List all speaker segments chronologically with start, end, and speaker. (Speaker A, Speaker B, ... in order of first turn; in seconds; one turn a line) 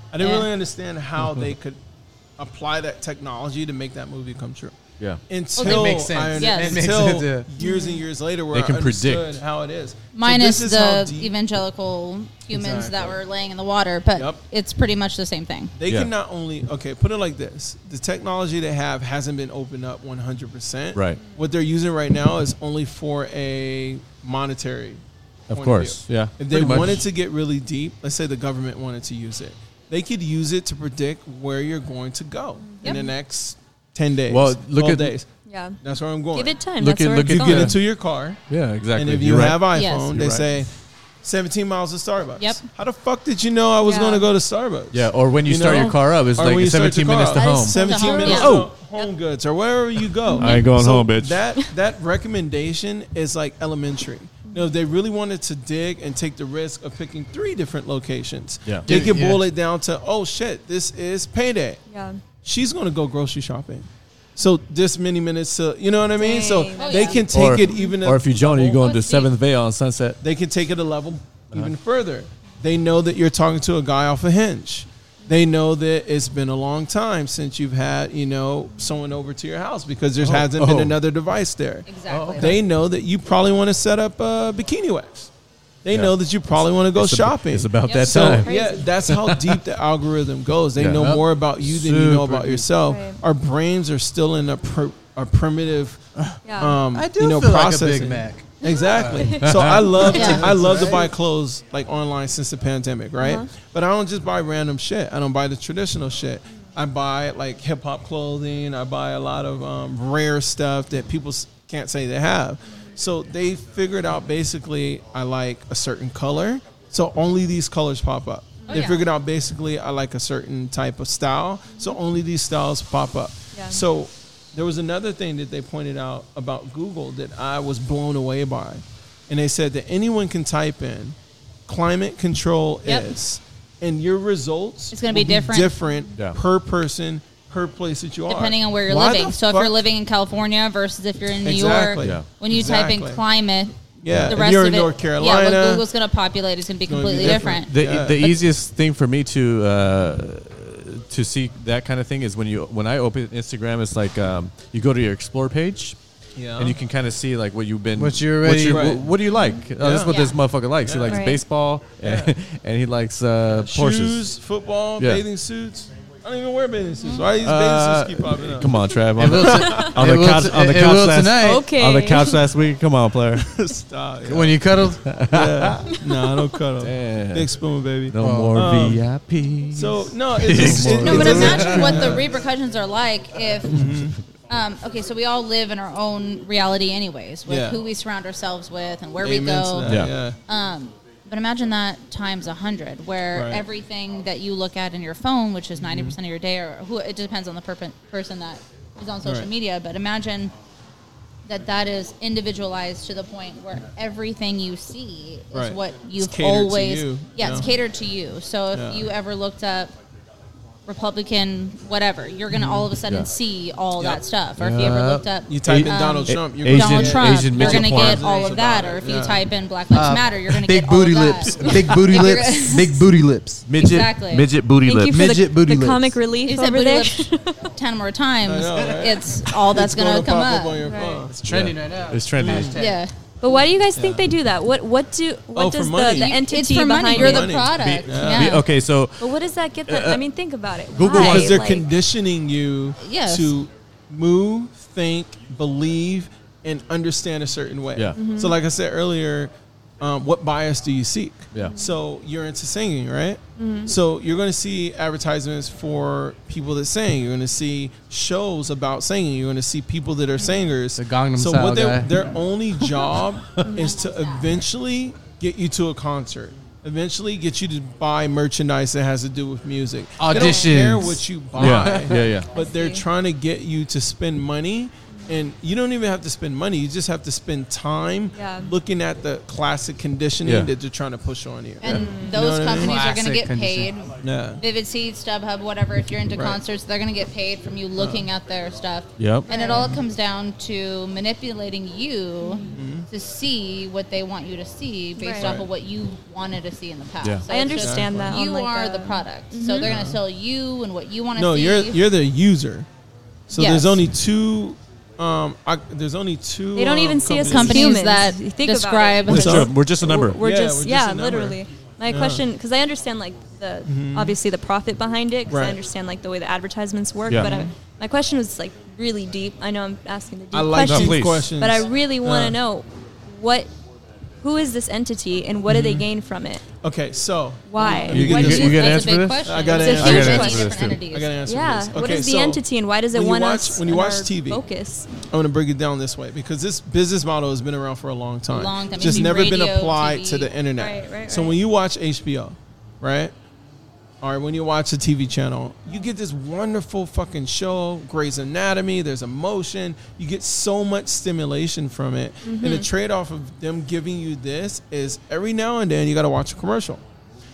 Speaker A: 0.1-1.8
Speaker B: 0.2-0.5
Speaker A: 2.4-11.3
Speaker B: 5.6-7.0
Speaker C: 5.6-7.5
Speaker D: 7.6-8.0
Speaker E: 8.5-9.4
Speaker B: 10.1-15.7
Speaker A: 12.5-13.2
Speaker A: 14.2-14.4
Speaker A: 15.8-35.3
Speaker E: 15.9-16.1
Speaker E: 20.9-21.2
Speaker E: 25.5-27.1
Speaker D: 32.7-33.1
Speaker E: 34.3-35.1
Speaker D: 35.5-35.8
Speaker A: 35.8-36.7
Speaker D: 36.3-37.8
Speaker E: 36.8-37.8
Speaker A: 37.2-38.5
Speaker E: 38.5-40.5
Speaker A: 39.0-61.8
Speaker B: 39.7-40.1
Speaker B: 42.4-42.6
Speaker D: 43.8-44.3
Speaker E: 44.9-48.7
Speaker B: 47.3-48.6
Speaker D: 47.8-49.1
Speaker D: 50.4-50.7
Speaker E: 50.4-51.4
Speaker E: 58.7-59.1
Speaker C: 58.8-59.5
Speaker D: 61.9-62.2
Speaker A: 62.4-68.9
Speaker D: 66.2-67.9
Speaker B: 66.8-67.2
Speaker E: 67.3-70.2
Speaker B: 68.8-69.3
Speaker A: 70.2-85.3
Speaker E: 80.2-81.0
Speaker B: 81.9-82.6
Speaker E: 82.1-82.5
Speaker A: 85.8-96.0
Speaker E: 86.9-88.5
Speaker B: 87.8-88.2
Speaker D: 88.2-88.9
Speaker E: 89.1-89.6
Speaker E: 90.8-91.2
Speaker C: 91.0-92.7
Speaker D: 92.8-93.2
Speaker C: 96.2-99.4
Speaker D: 96.4-96.8
Speaker A: 96.6-131.2
Speaker D: 98.7-100.4
Speaker E: 99.4-100.5
Speaker C: 100.0-101.1
Speaker B: 100.0-100.5
Speaker D: 103.2-103.5
Speaker D: 118.7-118.9
Speaker B: 118.7-119.0
Speaker D: 123.5-123.8
Speaker A: 131.7-139.8
Speaker B: 132.8-133.1
Speaker B: 134.9-135.8
Speaker B: 138.3-148.3
Speaker A: 141.4-143.2
Speaker E: 142.0-142.3
Speaker A: 144.0-145.9
Speaker E: 144.1-144.3
Speaker A: 146.9-148.2
Speaker E: 147.2-156.0
Speaker A: 156.4-156.8
Speaker E: 156.6-164.3
Speaker C: 158.0-159.0
Speaker A: 158.7-159.1
Speaker A: 159.8-160.2
Speaker B: 160.1-160.4
Speaker A: 160.8-161.3
Speaker D: 161.1-161.4
Speaker A: 162.0-162.3
Speaker A: 163.5-169.9
Speaker E: 165.0-165.2
Speaker E: 167.4-173.5
Speaker C: 169.2-171.7
Speaker D: 169.5-169.9
Speaker D: 171.4-172.4
Speaker A: 173.4-174.7
Speaker C: 174.2-175.1
Speaker E: 175.0-175.9
Speaker A: 175.3-179.0
Speaker E: 176.8-177.5
Speaker E: 178.1-182.2
Speaker C: 178.2-179.0
Speaker A: 179.7-182.3
Speaker B: 180.9-183.9
Speaker A: 183.7-184.2
Speaker B: 184.5-200.5
Speaker A: 187.5-187.8
Speaker A: 189.2-190.4
Speaker E: 189.8-190.2
Speaker A: 193.3-193.7
Speaker A: 195.8-196.2
Speaker B: 201.5-209.9
Speaker A: 205.5-207.7
Speaker A: 208.7-209.1
Speaker B: 210.9-223.1
Speaker A: 212.5-212.9
Speaker E: 214.6-218.3
Speaker A: 215.5-219.4
Speaker C: 219.9-223.7
Speaker E: 223.7-225.3
Speaker B: 223.8-224.5
Speaker D: 224.8-227.7
Speaker C: 225.1-226.2
Speaker B: 226.5-230.9
Speaker A: 228.4-231.3
Speaker D: 230.8-231.3
Speaker C: 231.3-233.0
Speaker E: 231.4-232.8
Speaker A: 232.4-232.8
Speaker B: 232.8-233.1
Speaker D: 233.4-237.6
Speaker A: 234.0-234.3
Speaker A: 235.6-236.4
Speaker B: 236.1-238.7
Speaker A: 237.1-238.6
Speaker E: 237.8-239.3
Speaker D: 239.2-241.9
Speaker E: 239.9-240.2
Speaker E: 240.9-241.6
Speaker A: 241.0-283.0
Speaker B: 243.0-243.6
Speaker D: 248.2-248.6
Speaker D: 251.6-251.9
Speaker D: 253.6-253.9
Speaker C: 261.0-262.2
Speaker B: 263.6-264.6
Speaker C: 270.2-271.9
Speaker D: 270.3-270.8
Speaker E: 271.6-272.5
Speaker D: 272.5-273.0
Speaker D: 278.4-278.7
Speaker E: 280.4-280.7
Speaker B: 281.8-302.0
Speaker D: 281.9-282.4
Speaker C: 282.6-283.9
Speaker A: 284.2-284.6
Speaker A: 286.4-286.6
Speaker A: 288.0-288.3
Speaker E: 289.2-289.5
Speaker D: 289.5-289.9
Speaker D: 292.4-292.8
Speaker A: 292.7-293.1
Speaker D: 295.2-295.6
Speaker A: 295.4-295.7
Speaker D: 297.5-299.9
Speaker A: 297.8-298.3
Speaker A: 299.8-300.2
Speaker A: 301.4-302.9
Speaker A: 303.5-308.0
Speaker B: 303.6-304.0
Speaker D: 306.8-323.7
Speaker B: 307.4-309.7
Speaker E: 309.3-310.4
Speaker A: 309.3-309.8
Speaker A: 310.4-312.4
Speaker A: 313.9-314.4
Speaker A: 315.5-315.8
Speaker E: 317.3-317.5
Speaker A: 317.3-317.7
Speaker A: 320.5-322.6
Speaker E: 320.8-321.5
Speaker D: 324.4-326.7
Speaker A: 325.7-326.1
Speaker A: 326.8-332.6
Speaker D: 327.7-329.1
Speaker E: 328.1-331.0
Speaker B: 328.4-331.3
Speaker D: 329.6-330.8
Speaker D: 331.4-335.1
Speaker A: 333.1-334.6
Speaker A: 335.3-343.3
Speaker B: 338.5-340.5
Speaker D: 340.8-341.6
Speaker A: 344.2-357.0
Speaker D: 352.4-352.9